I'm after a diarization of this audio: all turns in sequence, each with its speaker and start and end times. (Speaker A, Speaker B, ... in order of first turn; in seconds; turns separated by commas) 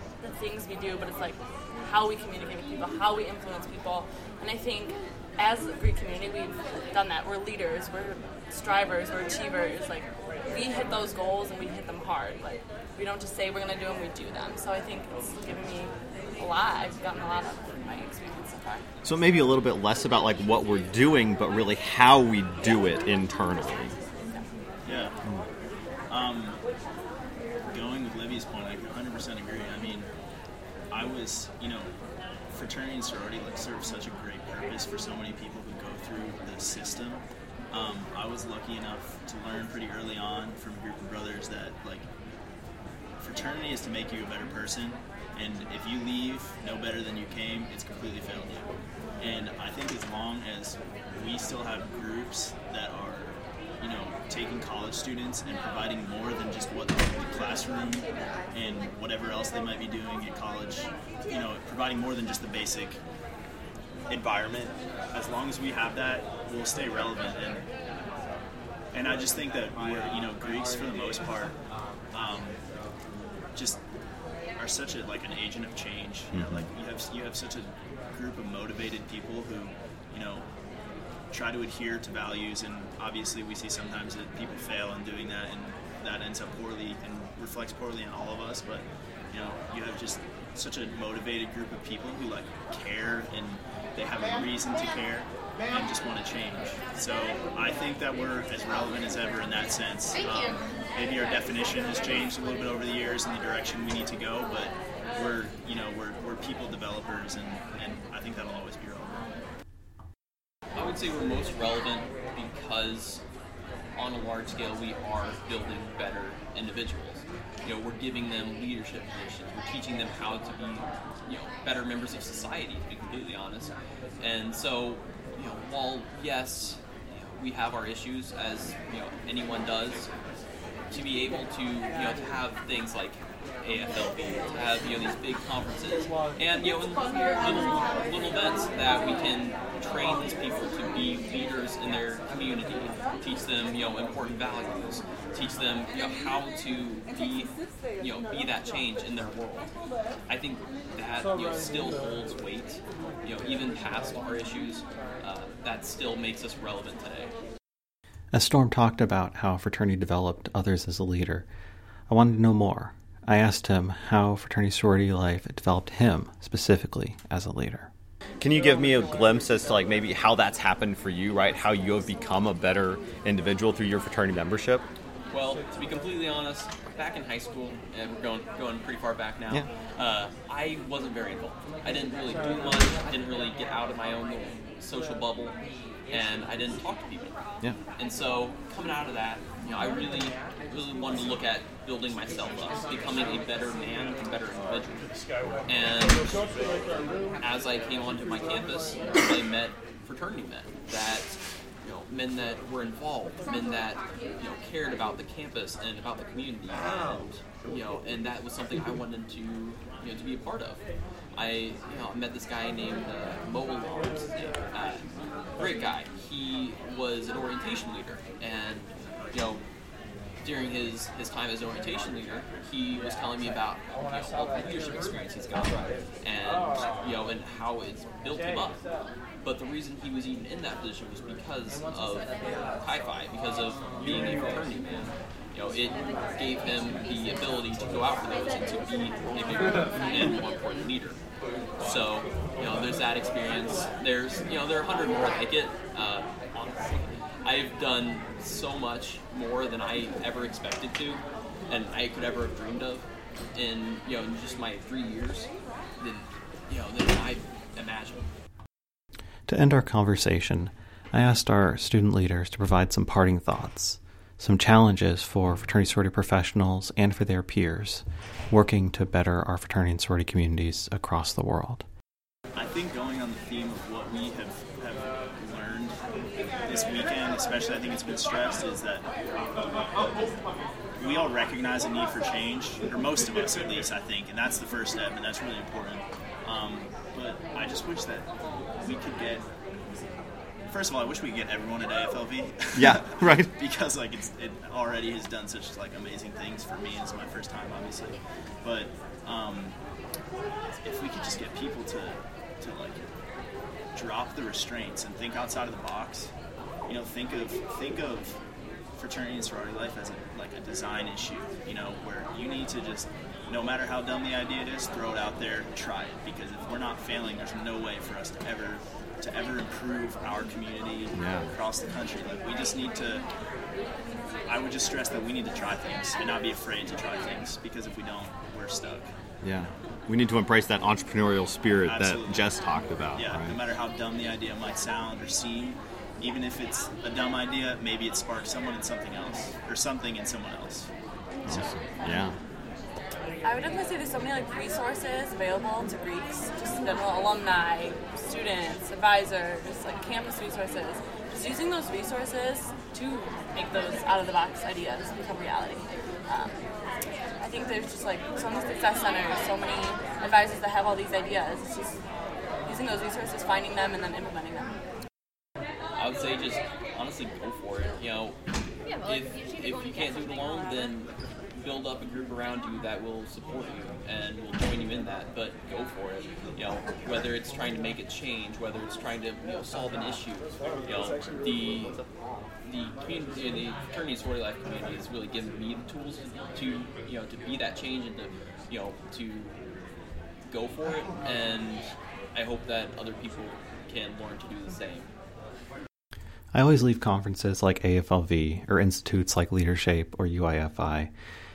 Speaker A: 0.2-18.9, Speaker B: 19.1-24.0, Speaker C: 24.9-25.2, Speaker C: 26.1-26.6, Speaker C: 27.7-30.1, Speaker C: 30.9-31.9, Speaker C: 32.5-42.1, Speaker C: 43.2-63.0, Speaker C: 64.1-67.7, Speaker C: 68.9-71.6, Speaker C: 72.1-72.6, Speaker C: 73.5-73.8, Speaker C: 74.6-80.5, Speaker B: 76.3-76.7, Speaker C: 81.3-109.2, Speaker D: 110.8-113.2, Speaker D: 114.0-130.1, Speaker D: 130.9-149.7, Speaker D: 150.3-157.3, Speaker E: 158.3-161.5, Speaker E: 162.1-167.9, Speaker B: 168.4-174.8, Speaker D: 175.3-185.6, Speaker D: 186.1-187.4, Speaker D: 188.0-195.1, Speaker D: 195.7-196.5, Speaker D: 197.4-210.8, Speaker D: 211.3-215.0, Speaker D: 215.6-219.6, Speaker D: 220.4-228.8, Speaker D: 229.4-241.2, Speaker D: 241.8-255.5, Speaker D: 256.0-258.3, Speaker E: 259.5-271.9, Speaker C: 272.6-276.0, Speaker C: 276.7-279.1, Speaker C: 281.0-288.3, Speaker C: 288.8-289.5, Speaker C: 290.7-299.8, Speaker B: 292.8-293.5, Speaker C: 300.8-303.0, Speaker C: 303.9-306.3, Speaker C: 306.9-308.4, Speaker C: 308.9-323.2, Speaker B: 321.2-321.5, Speaker C: 324.5-329.1, Speaker B: 329.4-333.6, Speaker C: 331.9-332.5, Speaker C: 333.1-340.9, Speaker B: 341.5-342.4, Speaker C: 341.5-342.2, Speaker A: 343.4-356.6, Speaker A: 357.4-362.0, Speaker A: 362.7-364.8, Speaker D: 366.0-368.4, Speaker D: 369.0-382.0, Speaker D: 382.6-389.6, Speaker D: 390.5-395.1, Speaker E: 396.5-401.1